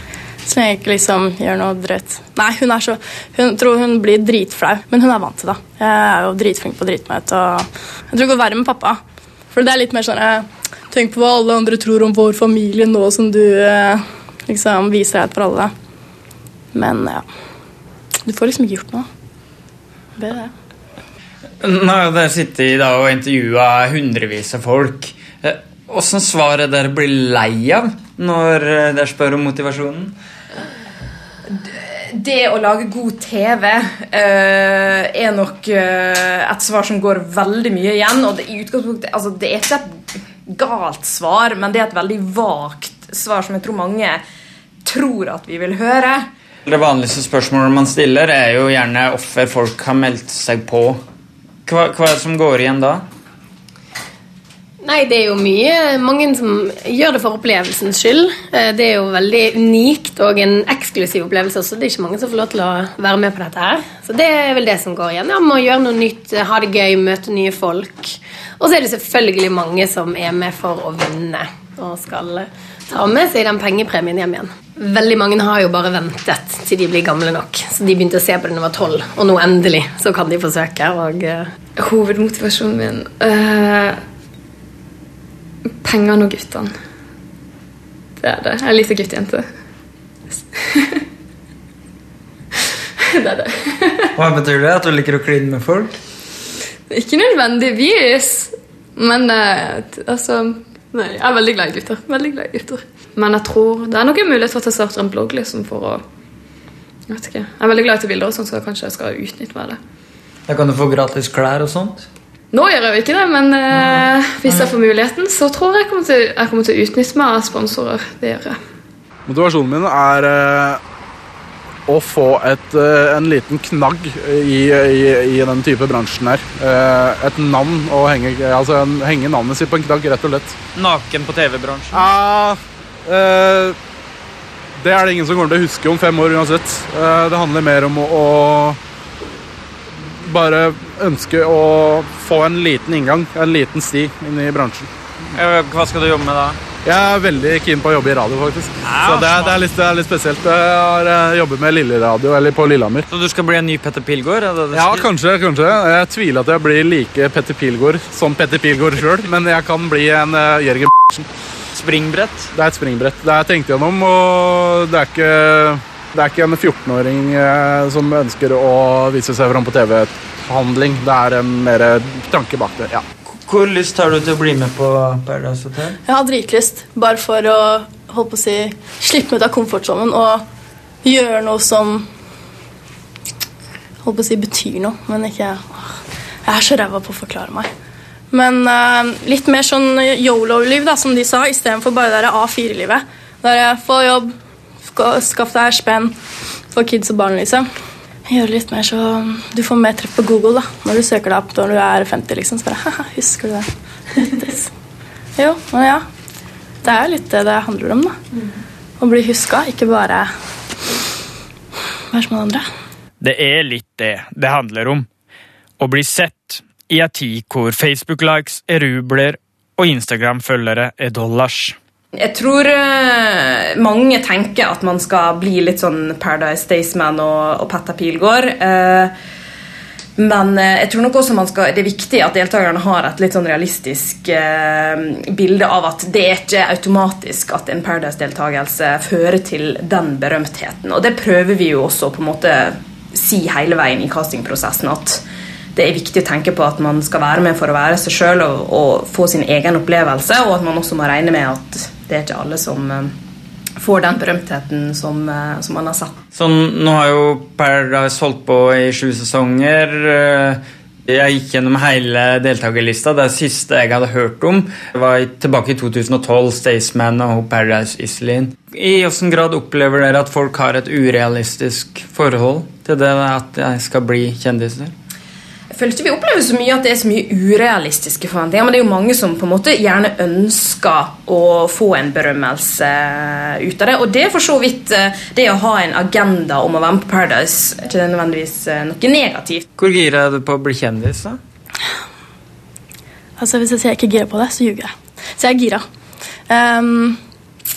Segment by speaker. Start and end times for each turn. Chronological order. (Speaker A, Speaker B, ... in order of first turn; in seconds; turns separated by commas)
Speaker A: 0.5-9.0, Speaker A: 9.5-15.7, Speaker A: 16.7-17.3, Speaker A: 18.2-19.1, Speaker A: 20.2-20.5, Speaker B: 21.6-30.1, Speaker C: 31.5-44.2, Speaker C: 44.9-46.2, Speaker B: 46.7-51.0, Speaker B: 51.7-53.0, Speaker D: 54.8-81.5, Speaker E: 81.8-84.0, Speaker E: 85.8-86.7, Speaker E: 88.2-89.5, Speaker E: 90.5-91.0, Speaker E: 93.0-94.1, Speaker B: 94.2-96.0, Speaker E: 96.9-106.0, Speaker E: 107.1-109.8, Speaker B: 110.5-112.1, Speaker E: 112.5-118.6, Speaker B: 113.7-114.7, Speaker F: 119.3-120.8, Speaker F: 121.9-130.6, Speaker G: 130.8-132.0, Speaker F: 131.9-133.8, Speaker F: 134.8-138.8, Speaker F: 140.2-144.9, Speaker B: 145.3-146.6, Speaker F: 146.8-153.1, Speaker B: 153.1-155.1, Speaker F: 154.7-161.2, Speaker G: 161.8-162.5, Speaker F: 162.5-173.1, Speaker B: 173.3-176.0, Speaker A: 176.1-180.4, Speaker A: 181.0-182.1, Speaker A: 184.0-187.7, Speaker A: 188.3-196.2, Speaker A: 196.7-197.7, Speaker A: 198.3-203.7, Speaker A: 204.2-204.7, Speaker A: 205.4-206.0, Speaker A: 206.8-208.2, Speaker A: 209.0-210.3, Speaker A: 212.1-212.6, Speaker G: 213.2-215.1, Speaker G: 215.8-221.8, Speaker C: 222.2-229.1, Speaker C: 230.2-245.2, Speaker C: 245.8-253.1, Speaker C: 253.8-256.2, Speaker B: 256.3-274.9, Speaker C: 275.7-289.7, Speaker B: 289.8-291.4, Speaker A: 293.4-295.8, Speaker A: 296.5-297.2